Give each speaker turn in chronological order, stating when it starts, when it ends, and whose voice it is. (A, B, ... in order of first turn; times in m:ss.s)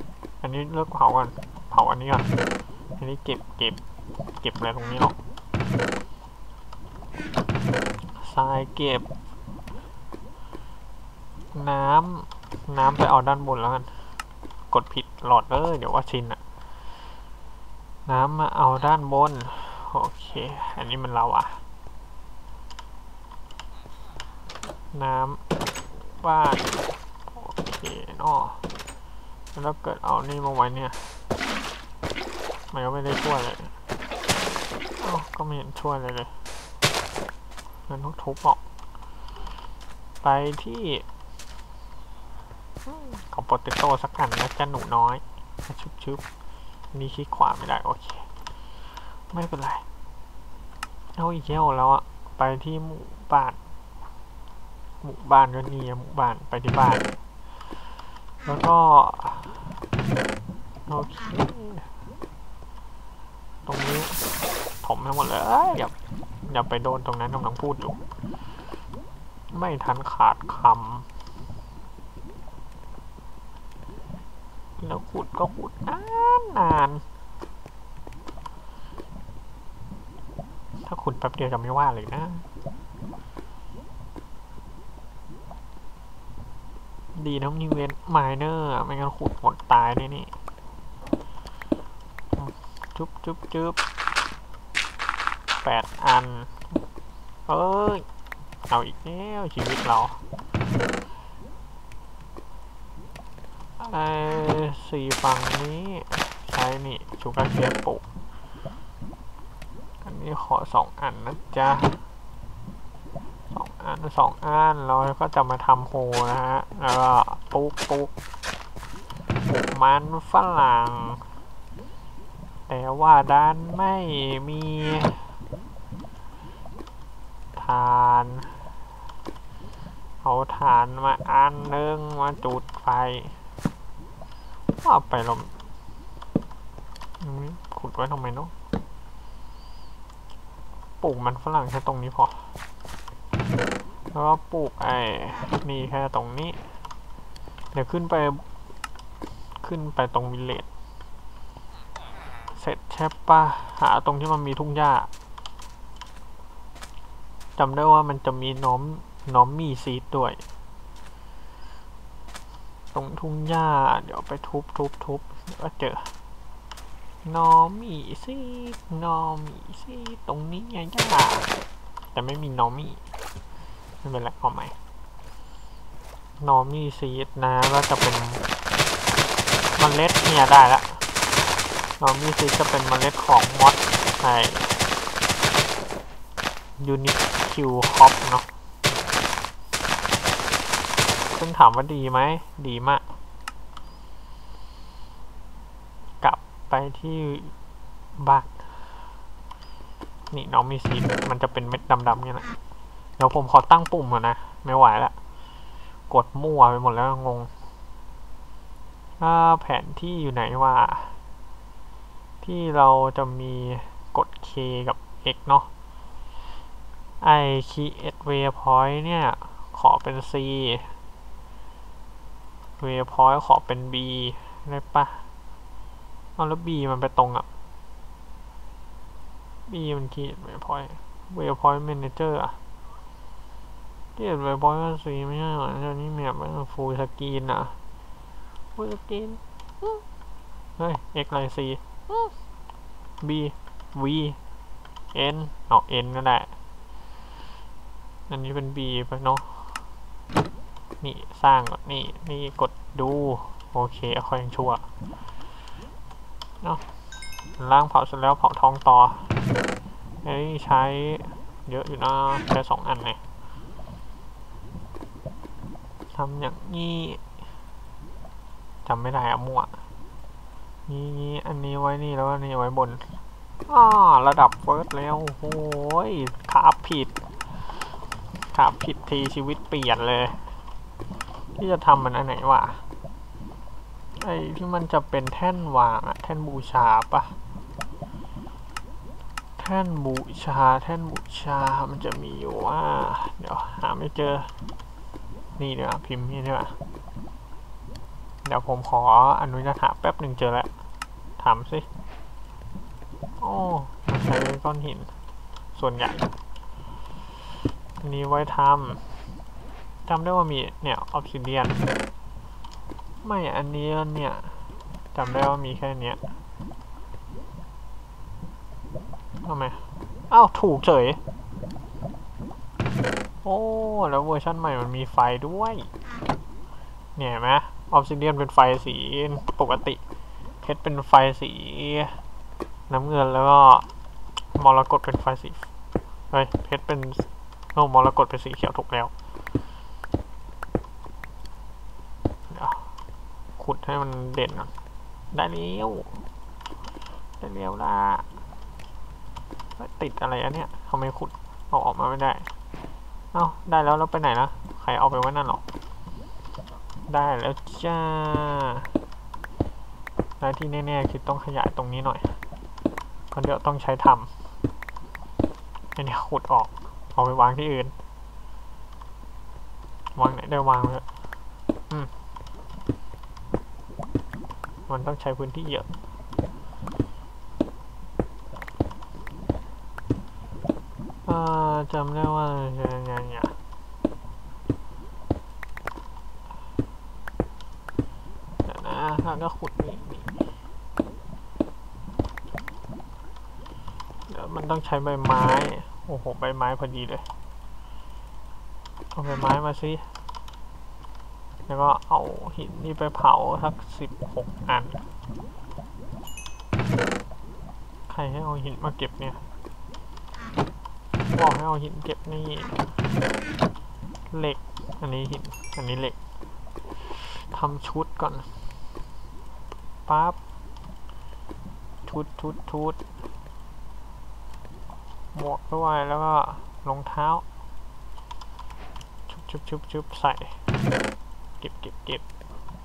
0:00.4-0:02.3 A
0:03.0-0:03.8 A
0:04.4-0:05.2 A
0:08.2-0:09.1 A
0:11.5-0:13.9 A
0:14.7-0:16.4 A
0:18.1-0:21.6 A
0:24.9-0:26.8 A
0:27.3-0:28.6 A
0:29.6-0:31.0 A
0:32.7-0:33.7 A
0:35.0-0:36.3 A
0:37.9-0:38.6 A
0:40.2-0:41.0 A
0:42.9-0:46.2 A
0:46.9-0:48.3 A
0:49.3-0:49.8 A
0:51.2-0:53.6 A
0:55.0-0:57.2 A
0:58.4-0:59.7 A
1:00.9-1:01.9 A
1:03.7-1:04.2 A
1:04.8-1:05.9 A
1:06.4-1:08.0 A
1:09.5-1:11.1 A
1:14.8-1:17.0 A
1:20.8-1:22.4 A
1:27.2-1:30.3 A
1:32.4-1:33.8 A
1:35.6-1:36.6 A
1:37.5-1:38.0 A
1:38.7-1:40.2 A
1:43.8-1:48.0 A
1:50.0-1:52.0 A
1:53.5-1:58.1 A
1:59.5-2:01.2 A
2:02.7-2:05.3 A
2:07.6-2:08.6 A
2:10.2-2:13.4 A
2:14.8-2:15.5 A
2:17.2-2:18.5 A
2:21.0-2:22.5 A
2:24.1-2:26.6 A
2:27.7-2:28.4 A
2:29.6-2:30.7 A
2:32.6-2:35.1 A
2:37.6-2:40.4 A
2:42.9-2:46.1 A
2:47.2-2:53.0 A
2:54.0-2:54.8 A
2:56.4-2:58.4 A
2:59.8-3:01.1 A
3:02.0-3:04.7 A
3:06.8-3:08.5 A
3:11.3-3:13.0 A
3:16.2-3:17.5 A
3:18.2-3:19.0 A
3:20.3-3:22.5 A
3:23.2-3:25.1 A
3:26.1-3:27.5 A
3:29.2-3:31.2 A
3:32.4-3:35.7 A
3:37.2-3:40.9 A
3:42.8-3:45.2 A
3:46.4-3:47.5 A
3:49.7-3:52.6 A
3:54.2-3:57.8 A
3:58.8-4:00.0 A
4:00.8-4:02.3 A
4:03.2-4:04.4 A
4:05.1-4:06.5 A
4:08.3-4:09.8 A
4:11.0-4:14.8 A
4:17.6-4:19.3 A
4:20.2-4:23.2 A
4:26.1-4:27.2 A
4:28.8-4:29.7 A
4:30.9-4:33.0 A
4:33.7-4:37.2 A
4:38.5-4:40.4 A
4:41.6-4:42.8 A
4:44.2-4:47.4 A
4:49.6-4:54.5 A
4:55.6-4:56.8 A
4:58.4-5:00.7 A
5:01.4-5:01.9 A
5:03.4-5:05.1 A
5:05.7-5:06.3 A
5:08.0-5:09.0 A
5:10.1-5:11.9 A
5:13.2-5:14.6 A
5:15.1-5:16.2 A
5:19.4-5:21.2 A
5:23.4-5:25.9 A
5:27.2-5:30.0 A
5:30.6-5:32.2 A
5:32.9-5:33.9 A
5:34.6-5:35.7 A
5:36.3-5:39.1 A
5:42.5-5:42.9 A
5:43.6-5:44.7 A
5:45.3-5:46.2 A
5:47.4-5:48.2 A
5:49.8-5:52.5 A
5:53.3-5:55.6 A
5:57.1-5:58.9 A
6:00.4-6:02.4 A
6:03.3-6:04.3 A
6:06.0-6:07.9 A
6:10.2-6:11.0 A
6:14.9-6:15.9 A
6:21.3-6:23.5 A
6:28.6-6:30.3 A
6:34.3-6:37.2 A
6:39.1-6:40.1 A
6:41.7-6:45.0 A
6:48.1-6:49.4 A
6:51.3-6:52.7 A
6:54.3-6:56.2 A
6:57.0-6:58.5 A
7:00.1-7:00.4 A
7:02.1-7:03.0 A
7:05.3-7:07.4 A
7:09.3-7:10.6 A
7:11.6-7:12.2 A